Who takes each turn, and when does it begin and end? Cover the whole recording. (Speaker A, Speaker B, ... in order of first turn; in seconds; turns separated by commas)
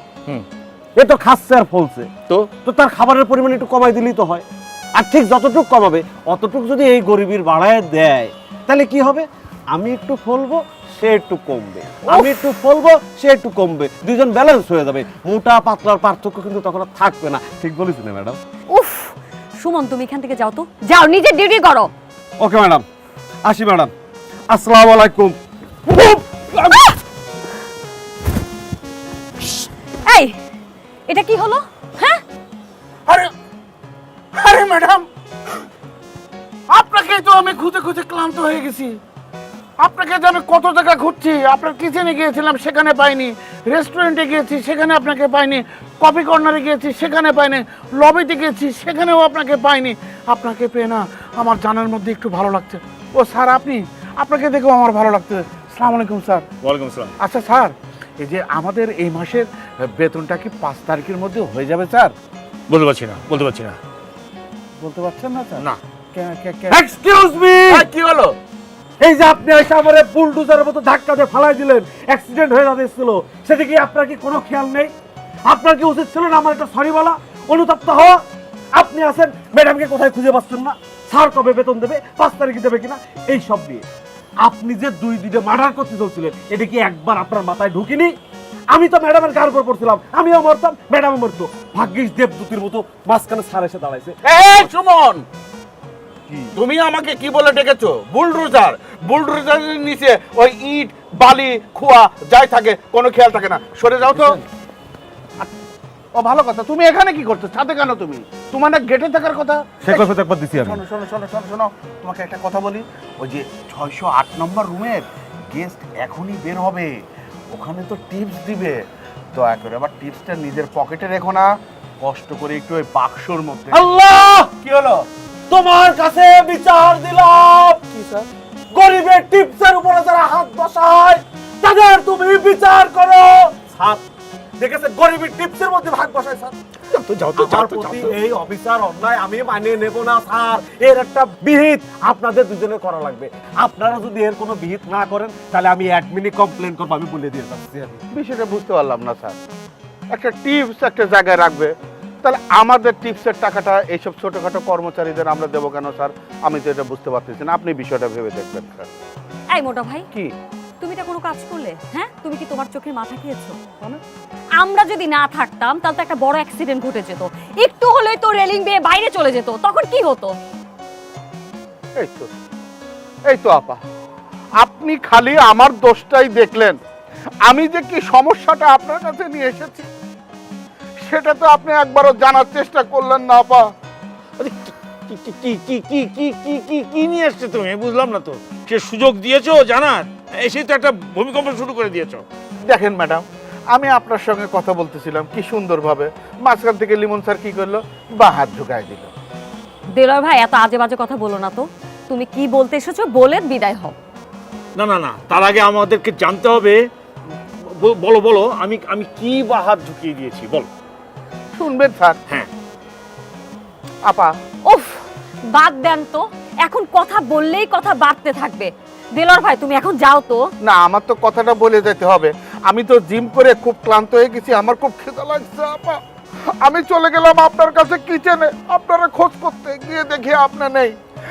Speaker A: 0.9-2.1, Speaker A: 2.6-4.4, Speaker A: 5.0-18.4, Speaker B: 12.1-12.4, Speaker B: 18.7-21.9, Speaker A: 22.4-22.8, Speaker A: 23.4-23.9, Speaker A: 24.5-26.9, Speaker B: 30.1-30.4, Speaker B: 31.1-32.2, Speaker C: 34.3-35.0, Speaker C: 36.7-39.0, Speaker C: 39.8-56.5, Speaker D: 56.6-57.1, Speaker C: 57.2-62.1, Speaker D: 62.7-63.8, Speaker C: 64.8-66.8, Speaker A: 66.7-67.8, Speaker C: 67.7-68.3, Speaker A: 69.0-74.9, Speaker A: 75.4-78.2, Speaker A: 78.7-83.8, Speaker A: 84.4-88.1, Speaker A: 88.7-94.2, Speaker C: 94.2-95.2, Speaker C: 96.3-104.4, Speaker C: 106.2-116.9, Speaker A: 109.8-110.8, Speaker C: 117.5-118.8, Speaker C: 119.3-123.9, Speaker A: 123.7-127.8, Speaker C: 127.9-128.3, Speaker A: 128.7-134.0, Speaker A: 134.6-136.5, Speaker D: 136.9-138.1, Speaker A: 137.4-148.0, Speaker C: 148.1-149.4, Speaker C: 150.1-151.7, Speaker C: 152.2-158.9, Speaker B: 159.5-160.1, Speaker B: 160.8-163.6, Speaker B: 164.6-170.4, Speaker C: 171.9-172.3, Speaker C: 173.3-173.8, Speaker C: 174.6-176.8, Speaker C: 177.4-179.9, Speaker C: 181.0-183.7, Speaker D: 184.4-192.2, Speaker C: 192.7-199.1, Speaker B: 199.9-203.9, Speaker D: 204.8-206.8, Speaker D: 207.6-210.7, Speaker C: 211.6-212.2, Speaker C: 214.0-214.3, Speaker B: 214.7-220.5, Speaker C: 220.6-226.0, Speaker C: 226.6-230.9